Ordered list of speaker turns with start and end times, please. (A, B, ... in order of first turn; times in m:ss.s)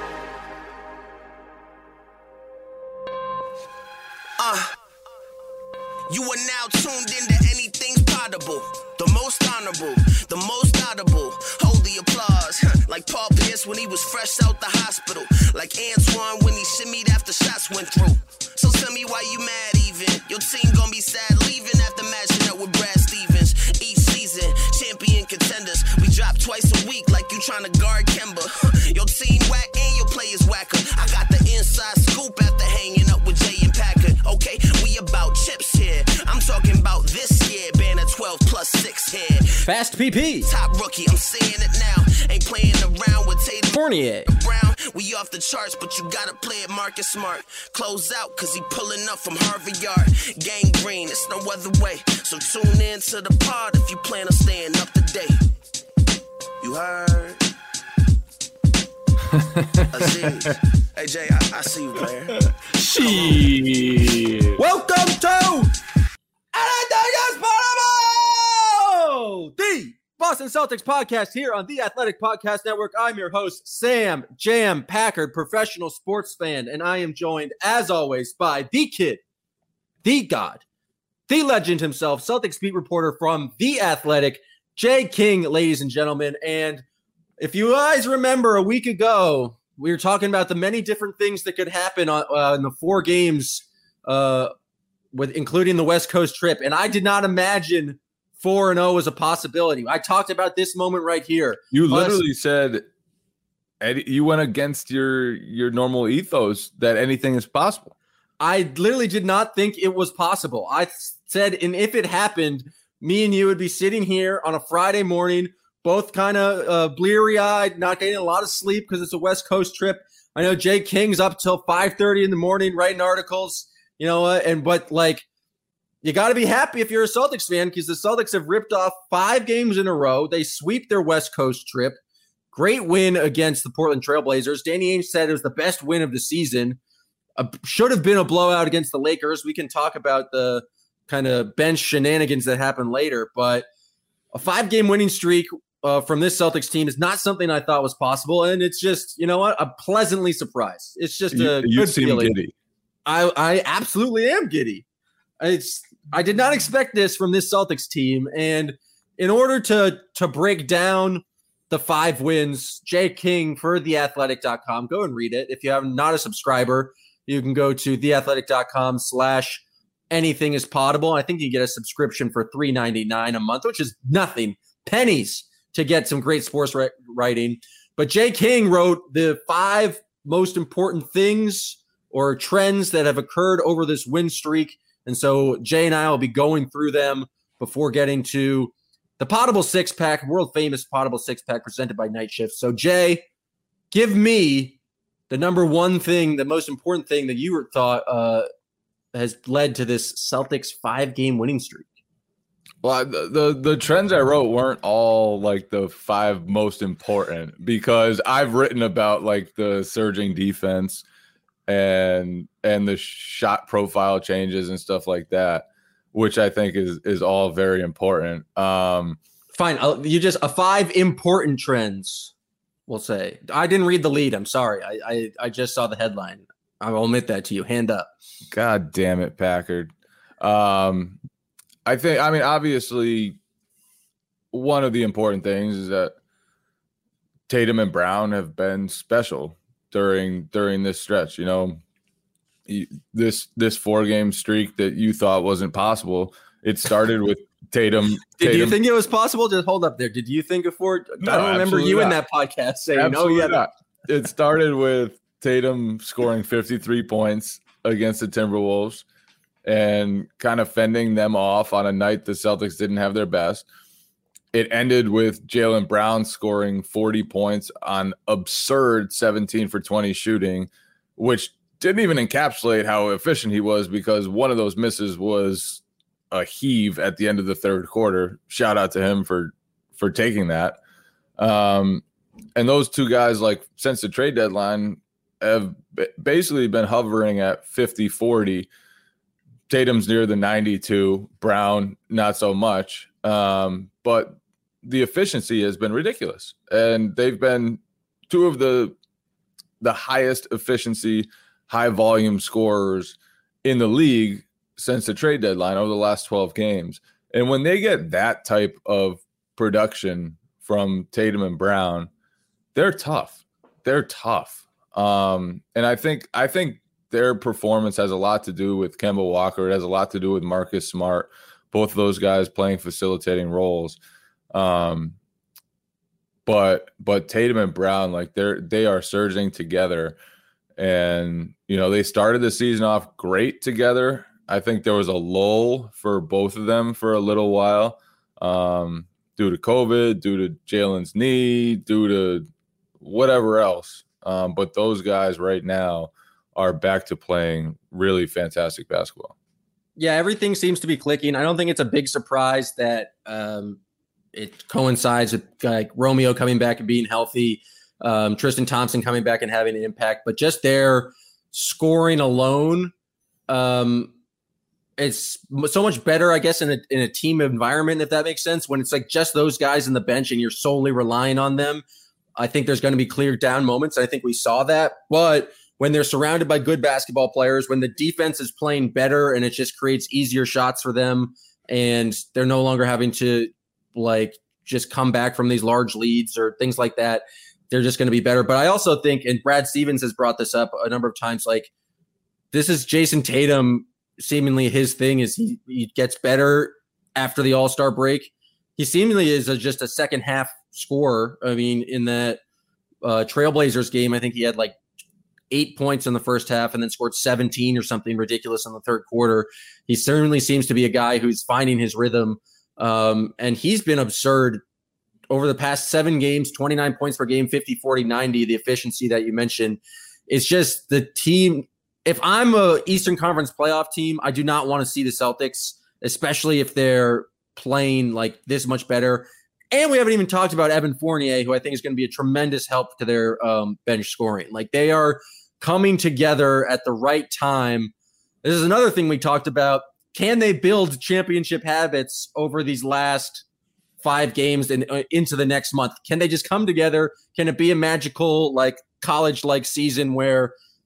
0:04.4-0:04.7 A
0:06.1-0:39.5 A
0:39.6-0:40.5 B
0:40.4-0:55.4 A
0:43.7-0:44.3 B
0:56.6-0:57.4 A
0:59.9-1:02.4 A
1:02.8-1:03.5 B
1:03.0-1:03.4 A
1:03.3-1:04.6 C
1:04.6-1:05.7 B
1:06.5-1:19.2 B
1:20.0-1:20.6 B
1:21.3-1:26.8 B
1:27.4-1:34.5 B
1:35.1-1:42.2 B
1:41.7-1:42.9 C
1:43.8-1:48.0 C
1:48.4-2:05.2 B
2:06.0-2:12.0 B
2:12.5-2:16.8 B
2:17.4-2:23.7 B
2:24.3-2:32.4 B
2:31.3-2:32.5 C
2:33.1-2:34.8 B
2:35.4-3:13.2 B
3:13.9-3:14.8 B
3:15.3-3:18.5 B
3:19.1-3:21.9 B
3:22.8-3:31.0 C
3:31.7-3:39.2 C
3:39.5-3:42.3 B
3:42.9-3:48.1 B
3:48.5-3:51.2 C
3:51.9-3:53.4 C
3:54.5-3:56.2 C
3:57.5-4:01.8 C
4:02.7-4:08.8 C
4:08.4-4:13.6 B
4:11.2-4:12.2 C
4:13.0-4:19.0 C
4:19.6-4:23.6 C
4:24.5-4:40.8 C
4:41.4-4:42.0 C
4:42.6-4:48.7 C
4:49.7-4:59.0 C
4:59.8-5:12.1 C
5:12.8-5:24.0 C
5:24.5-5:25.2 C
5:26.5-5:30.2 C
5:30.8-5:42.5 C
5:43.0-5:49.3 C
5:50.0-5:53.8 B
5:54.3-6:02.9 B
6:03.5-6:04.1 B
6:05.0-6:11.8 B
6:12.4-6:31.7 B
6:32.5-6:42.4 B
6:43.0-6:44.8 B
6:45.5-6:54.6 B
6:55.3-7:17.9 B
7:18.4-7:23.4 B
7:24.0-7:30.6 B